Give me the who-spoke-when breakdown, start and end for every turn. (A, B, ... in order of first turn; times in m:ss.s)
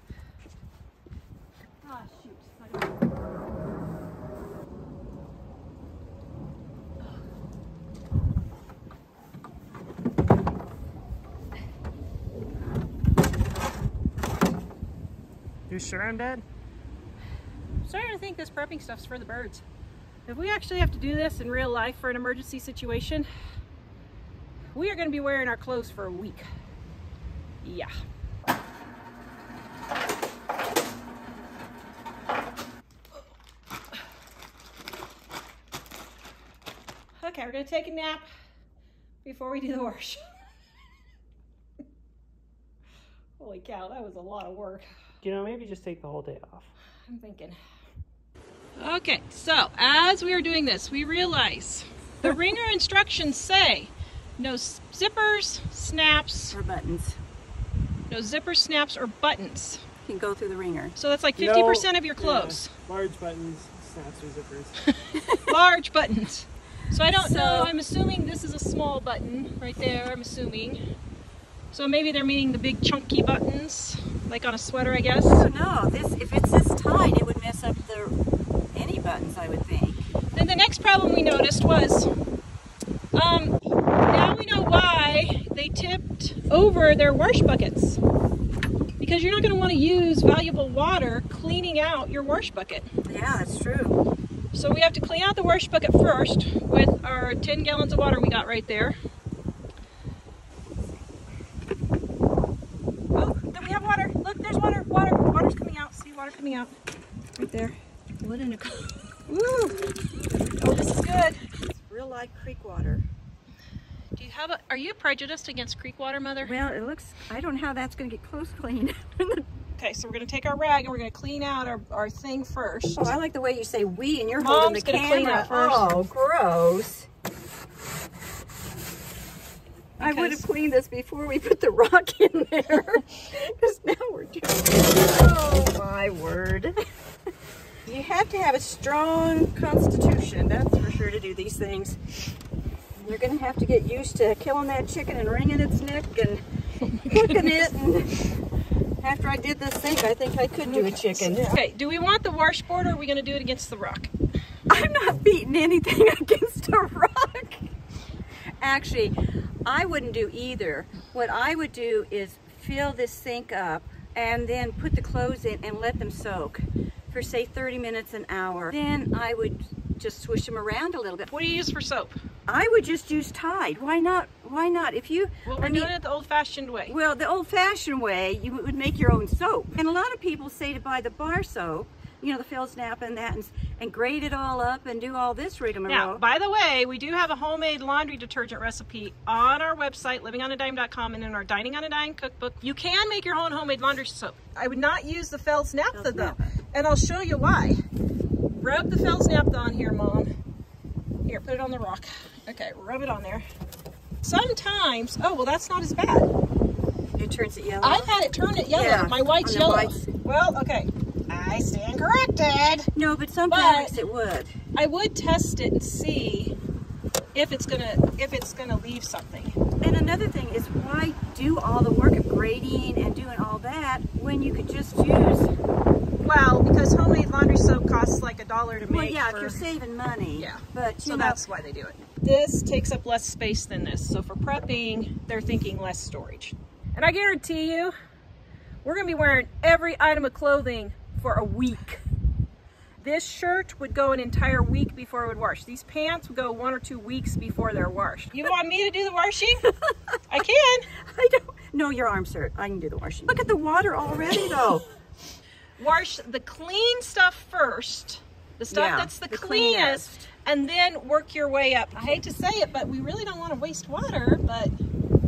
0:01.8-0:02.6 A
0:15.7-0:16.4 B
0:17.8-0:19.6 A
0:20.3-0:23.3 A
0:24.7-0:26.4 A
0:27.6-0:27.9 A
0:37.2-0:38.3 A
0:39.2-0:40.2 A
0:43.4-0:44.8 A
0:45.2-0:46.7 B
0:47.1-0:47.6 A
0:48.8-0:56.6 A
0:56.5-0:57.2 C
0:58.1-0:59.8 A
1:00.0-1:00.9 C
1:01.0-1:02.7 A
1:01.4-1:04.8 B
1:04.8-1:10.8 A
1:05.1-1:05.5 C
1:07.1-1:07.7 C
1:11.7-1:15.4 A
1:15.2-1:18.1 C
1:18.7-1:20.0 C
1:20.3-1:22.1 A
1:23.1-1:28.0 A
1:29.0-1:32.9 A
1:33.1-1:34.0 C
1:34.5-1:39.0 A
1:43.1-1:46.7 A
1:47.4-1:49.7 C
1:49.3-1:49.6 A
1:50.6-1:51.4 A
1:51.5-1:53.0 C
1:54.2-1:56.6 A
1:56.4-1:59.4 C
1:59.8-2:03.1 A
2:03.0-2:07.1 C
2:04.4-2:05.9 A
2:10.0-2:16.7 C
2:10.0-2:10.4 A
2:17.8-2:22.0 C
2:23.0-2:26.4 C
2:26.8-2:27.6 A
2:27.0-2:28.3 C
2:29.0-2:31.6 C
2:30.7-2:34.1 A
2:34.7-2:37.7 C
2:38.6-2:51.3 C
2:51.3-2:52.2 A
2:52.5-2:55.9 C
2:55.5-2:56.9 A
2:56.9-3:06.2 C
3:05.9-3:17.8 A
3:15.9-3:16.5 C
3:18.5-3:20.3 A
3:21.2-3:23.4 A
3:24.2-3:26.3 A
3:27.2-3:28.1 C
3:27.8-3:32.9 A
3:28.7-3:30.0 C
3:32.9-3:34.5 C
3:33.5-3:34.0 A
3:34.7-3:36.5 A
3:37.3-3:39.6 A
3:39.8-3:45.5 C
3:46.2-3:49.7 A
3:48.9-3:51.4 C
3:50.4-3:57.9 A
3:58.8-4:02.0 A
4:03.0-4:09.7 A
4:09.6-4:10.2 C
4:10.3-4:10.9 A
4:11.0-4:14.8 C
4:15.8-4:24.7 A
4:18.7-4:20.3 C